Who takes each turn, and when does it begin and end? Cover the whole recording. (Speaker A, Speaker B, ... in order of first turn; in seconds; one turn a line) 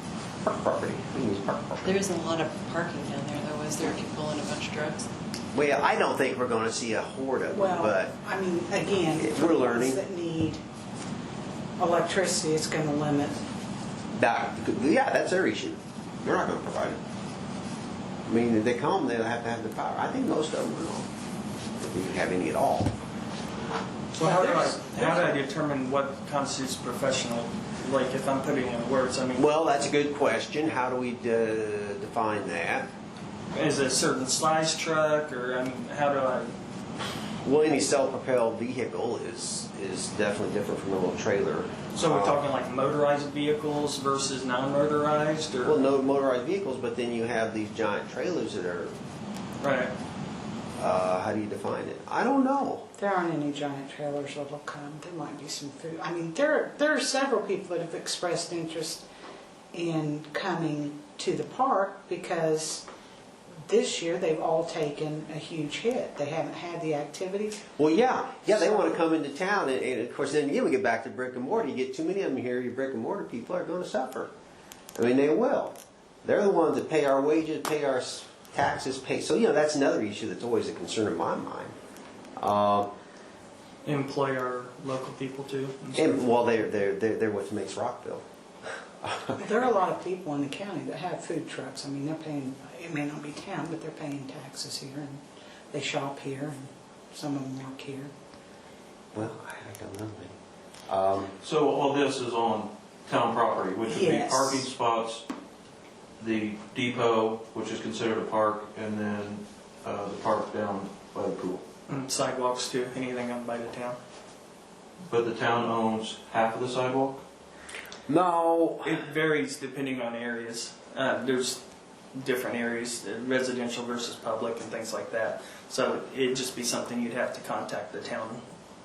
Speaker A: 0.4-1.9
Speaker B: 1.8-5.1
Speaker A: 5.5-8.1
Speaker C: 7.5-10.6
Speaker A: 9.1-10.0
Speaker C: 11.8-13.4
Speaker A: 14.1-17.0
Speaker A: 18.2-21.1
Speaker A: 21.8-22.9
Speaker D: 24.1-29.8
Speaker C: 24.2-25.4
Speaker A: 29.3-32.9
Speaker D: 33.5-36.5
Speaker A: 37.4-42.4
Speaker D: 41.9-45.9
Speaker A: 45.6-48.9
Speaker D: 49.6-49.9
Speaker A: 50.8-52.8
Speaker C: 53.0-59.0
Speaker C: 59.7-62.8
Speaker C: 63.7-67.7
Speaker A: 67.8-74.3
Speaker C: 68.5-69.0
Speaker A: 74.9-81.7
Speaker A: 82.4-82.9
Speaker D: 83.8-86.2
Speaker A: 85.9-88.2
Speaker A: 89.0-89.5
Speaker C: 89.4-95.2
Speaker C: 95.7-98.1
Speaker A: 99.1-100.3
Speaker A: 100.9-101.3
Speaker E: 101.4-105.2
Speaker C: 103.8-104.7
Speaker E: 106.2-111.6
Speaker D: 111.9-114.0
Speaker E: 115.1-117.2
Speaker A: 118.1-118.9
Speaker D: 118.8-121.6
Speaker D: 122.1-128.4